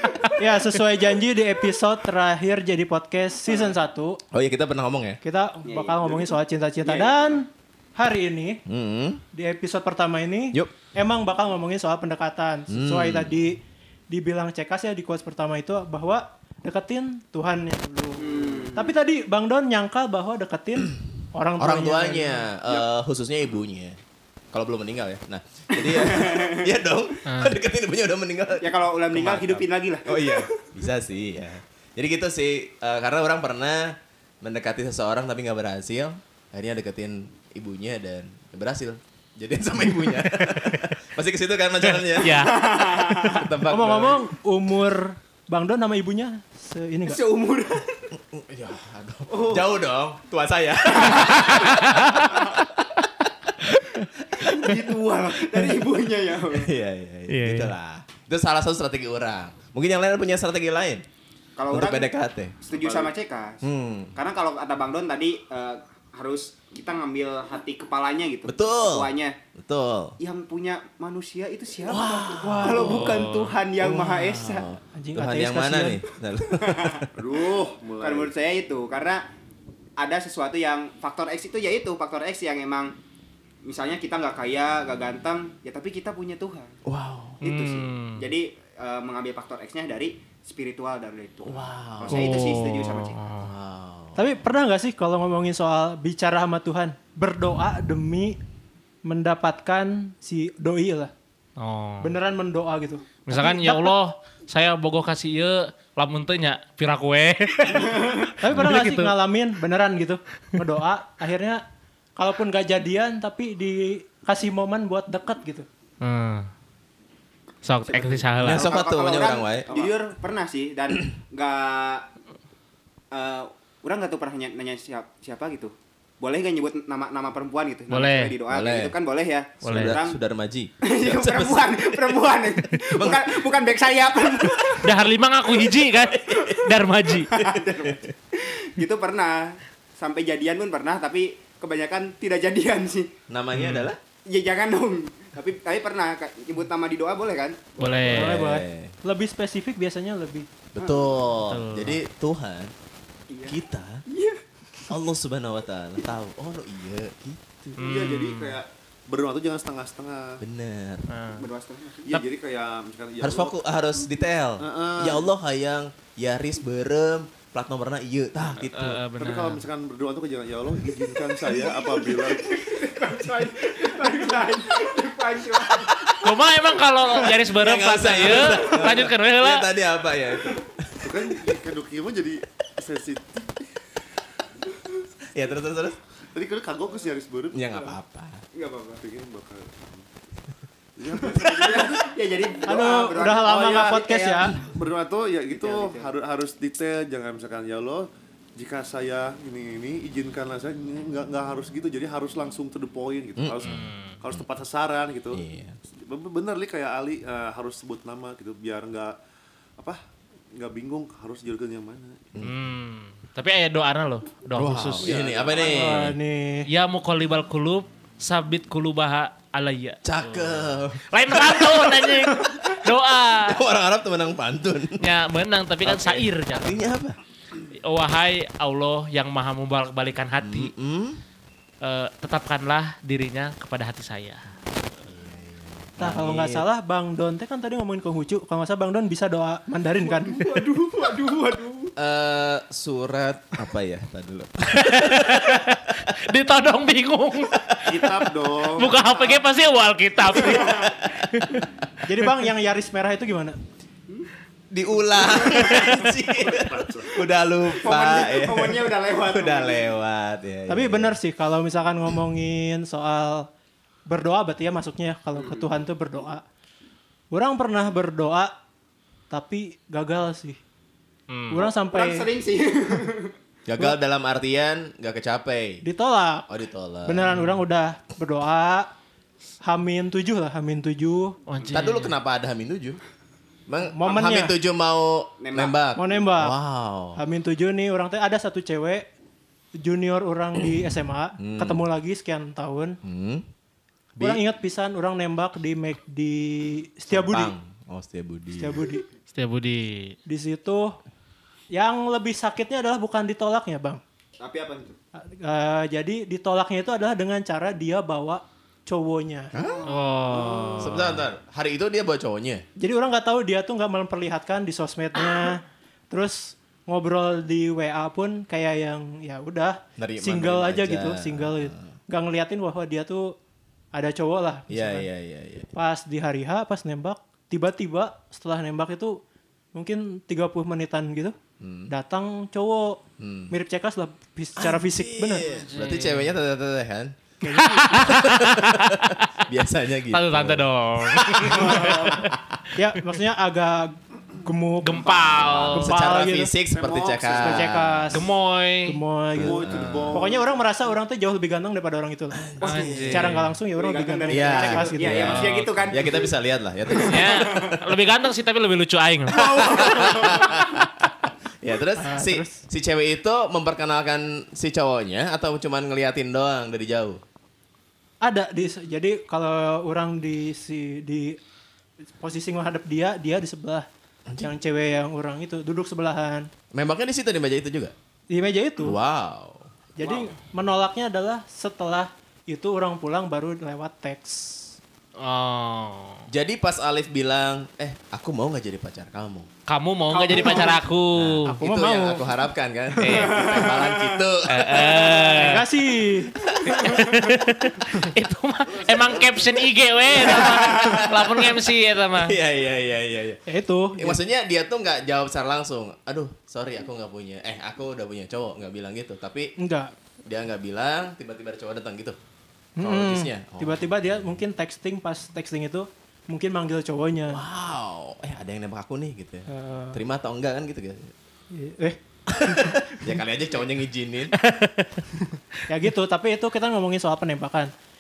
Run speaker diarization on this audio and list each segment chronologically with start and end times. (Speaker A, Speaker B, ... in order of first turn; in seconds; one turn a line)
Speaker A: 0.4-4.2
Speaker B: 3.5-3.7
Speaker C: 4.3-5.2
Speaker A: 5.2-8.6
Speaker B: 5.7-7.4
Speaker C: 8.7-9.2
Speaker A: 9.3-22.5
Speaker C: 12.7-13.3
Speaker B: 18.2-18.9
Speaker C: 21.6-24.0
Speaker C: 24.5-44.2
Speaker B: 25.8-26.7
Speaker D: 27.3-27.6
Speaker B: 28.6-30.7
Speaker D: 40.2-40.8
Speaker D: 42.2-43.0
Speaker B: 42.2-43.5
Speaker A: 43.7-47.2
Speaker B: 47.1-48.0
Speaker C: 48.2-52.8
Speaker B: 49.3-49.7
Speaker B: 50.9-51.7
Speaker D: 51.7-52.2
Speaker B: 52.3-52.6
Speaker C: 53.5-53.7
Speaker B: 54.4-56.7
Speaker C: 56.5-61.0
Speaker D: 57.3-57.7
Speaker B: 61.6-63.6
Speaker C: 61.7-62.6
Speaker E: 62.7-63.1
Speaker C: 63.6-64.2
Speaker B: 64.2-69.4
Speaker C: 68.5-70.2
Speaker B: 70.2-74.7
Speaker C: 71.9-73.1
Speaker A: 72.4-73.0
Speaker D: 72.8-73.5
Speaker C: 73.8-77.0
Speaker A: 75.0-76.0
Speaker B: 76.6-77.1
Speaker E: 77.2-78.3
Speaker B: 78.0-79.2
Speaker B: 80.0-82.9
Speaker B: 83.7-86.7
Speaker C: 86.9-87.4
Speaker D: 87.4-88.3
Speaker B: 87.4-93.2
Speaker C: 91.4-92.4
Speaker D: 92.1-93.5
Speaker C: 93.4-94.3
Speaker A: 94.2-98.4
Speaker A: 99.0-101.1
Speaker D: 101.6-102.1
Speaker A: 102.0-104.0
Speaker D: 103.3-109.1
Speaker A: 108.4-111.6
Speaker A: 112.2-115.7
Speaker D: 116.0-116.5
Speaker D: 117.6-118.7
Speaker B: 117.8-122.1
Speaker C: 118.4-119.7
Speaker B: 123.1-130.2
Speaker D: 127.9-128.4
Speaker C: 128.5-129.0
Speaker C: 129.6-132.2
Speaker D: 129.6-129.9
Speaker B: 130.8-134.9
Speaker C: 132.8-133.4
Speaker D: 134.8-137.3
Speaker C: 136.1-136.4
Speaker B: 137.3-143.1
Speaker C: 137.3-137.9
Speaker C: 143.3-144.0
Speaker D: 143.5-143.9
Speaker B: 144.3-147.7
Speaker D: 147.8-148.4
Speaker A: 148.0-150.5
Speaker C: 148.1-149.0
Speaker C: 150.7-152.7
Speaker B: 150.8-151.1
Speaker D: 151.5-152.0
Speaker B: 153.3-154.4
Speaker C: 153.5-154.0
Speaker C: 154.9-157.8
Speaker E: 157.8-160.4
Speaker D: 157.8-158.6
Speaker C: 160.4-161.1
Speaker D: 161.1-161.5
Speaker B: 161.4-162.2
Speaker E: 162.0-163.6
Speaker C: 163.2-169.0
Speaker E: 164.6-165.3
Speaker D: 168.6-169.6
Speaker E: 169.2-172.5
Speaker B: 171.5-176.2
Speaker D: 176.2-179.7
Speaker C: 177.5-181.4
Speaker E: 181.0-183.6
Speaker C: 185.3-186.0
Speaker E: 186.3-187.6
Speaker C: 187.5-188.4
Speaker B: 188.6-189.0
Speaker E: 189.0-190.1
Speaker E: 191.0-192.0
Speaker B: 191.2-193.8
Speaker A: 192.7-194.6
Speaker E: 193.5-205.4
Speaker B: 195.5-196.1
Speaker C: 203.4-204.4
Speaker D: 203.6-204.2
Speaker C: 205.3-205.8
Speaker E: 206.0-209.2
Speaker E: 210.5-212.4
Speaker D: 212.4-215.1
Speaker C: 214.5-216.2
Speaker E: 215.0-215.9
Speaker A: 215.6-216.7
Speaker D: 216.7-223.6
Speaker C: 220.0-222.3
Speaker C: 223.4-225.1
Speaker D: 225.0-226.9
Speaker C: 225.8-227.2
Speaker D: 227.7-230.7
Speaker C: 230.4-231.2
Speaker D: 231.8-234.5
Speaker C: 235.0-236.7
Speaker A: 236.0-240.4
Speaker B: 240.0-241.9
Speaker C: 242.0-245.6
Speaker D: 244.8-247.9
Speaker E: 247.9-249.0
Speaker D: 248.7-251.7
Speaker B: 249.0-249.4
Speaker B: 250.2-250.9
Speaker C: 250.3-251.1
Speaker A: 252.1-253.6
Speaker C: 254.7-261.2
Speaker B: 255.2-256.1
Speaker E: 256.4-257.1
Speaker B: 257.7-259.9
Speaker A: 260.7-263.5
Speaker A: 264.1-266.4
Speaker B: 265.4-265.7
Speaker A: 267.3-268.5
Speaker A: 269.3-270.6
Speaker D: 271.3-271.7
Speaker A: 271.5-272.3
Speaker B: 271.9-273.3
Speaker C: 273.7-275.8
Speaker A: 275.8-276.5
Speaker C: 276.5-277.4
Speaker A: 277.1-278.9
Speaker D: 277.3-277.6
Speaker A: 279.6-281.4
Speaker D: 281.5-282.1
Speaker C: 281.7-283.0
Speaker C: 283.7-287.2
Speaker A: 283.9-284.6
Speaker B: 285.4-285.8
Speaker A: 285.9-286.6
Speaker A: 287.2-289.1
Speaker A: 289.8-293.0
Speaker C: 291.4-291.8
Speaker C: 293.0-293.5
Speaker C: 294.2-294.4
Speaker A: 294.2-297.5
Speaker C: 297.1-299.0
Speaker A: 298.6-299.0
Speaker D: 299.3-300.2
Speaker A: 300.3-301.0
Speaker A: 301.7-304.0
Speaker B: 304.4-305.0
Speaker A: 305.1-309.5
Speaker C: 309.5-309.9
Speaker B: 309.6-309.9
Speaker D: 309.9-311.2
Speaker C: 310.8-312.6
Speaker A: 312.8-323.4
Speaker C: 320.0-321.9
Speaker A: 323.9-325.1
Speaker C: 324.7-325.7
Speaker A: 325.7-329.2
Speaker A: 329.7-331.4
Speaker C: 331.6-331.9
Speaker A: 331.9-335.5
Speaker C: 333.2-333.5
Speaker C: 334.6-337.2
Speaker D: 335.4-336.3
Speaker A: 337.4-338.2
Speaker D: 337.6-339.4
Speaker C: 337.8-342.2
Speaker D: 340.1-342.4
Speaker A: 342.8-346.6
Speaker D: 344.8-346.0
Speaker C: 345.1-348.3
Speaker E: 346.6-347.7
Speaker A: 347.3-348.3
Speaker D: 348.1-349.0
Speaker A: 348.9-349.6
Speaker C: 349.4-350.3
Speaker E: 349.4-350.5
Speaker D: 349.6-350.1
Speaker A: 350.1-355.3
Speaker C: 352.3-353.4
Speaker D: 352.6-353.6
Speaker B: 352.6-353.1
Speaker B: 353.7-356.1
Speaker C: 354.3-357.3
Speaker D: 355.1-355.7
Speaker B: 356.9-357.8
Speaker D: 357.1-359.4
Speaker B: 359.3-360.6
Speaker C: 359.3-367.2
Speaker A: 362.0-362.6
Speaker A: 368.2-371.4
Speaker A: 372.0-373.9
Speaker C: 374.3-374.5
Speaker A: 374.4-376.5
Speaker C: 376.7-377.9
Speaker A: 378.3-379.0
Speaker C: 378.8-379.7
Speaker A: 380.0-384.8
Speaker B: 380.0-380.3
Speaker D: 385.2-386.2
Speaker C: 386.3-389.5
Speaker D: 389.7-391.6
Speaker B: 390.1-390.9
Speaker C: 391.1-395.2
Speaker A: 391.5-392.3
Speaker D: 393.0-393.3
Speaker B: 393.2-394.2
Speaker D: 394.5-395.6
Speaker B: 394.9-395.2
Speaker A: 395.2-396.4
Speaker C: 396.5-397.2
Speaker B: 396.7-397.0
Speaker D: 396.7-402.4
Speaker E: 398.7-399.7
Speaker C: 400.1-401.6
Speaker B: 400.3-400.9
Speaker C: 402.1-403.4
Speaker A: 403.5-404.2
Speaker C: 403.9-409.5
Speaker A: 409.6-409.9
Speaker C: 410.3-412.2
Speaker A: 412.8-417.4
Speaker C: 412.8-414.4
Speaker C: 417.3-421.1
Speaker A: 419.5-420.0
Speaker A: 421.5-423.2
Speaker C: 422.3-424.4
Speaker D: 424.5-425.0
Speaker A: 425.1-427.7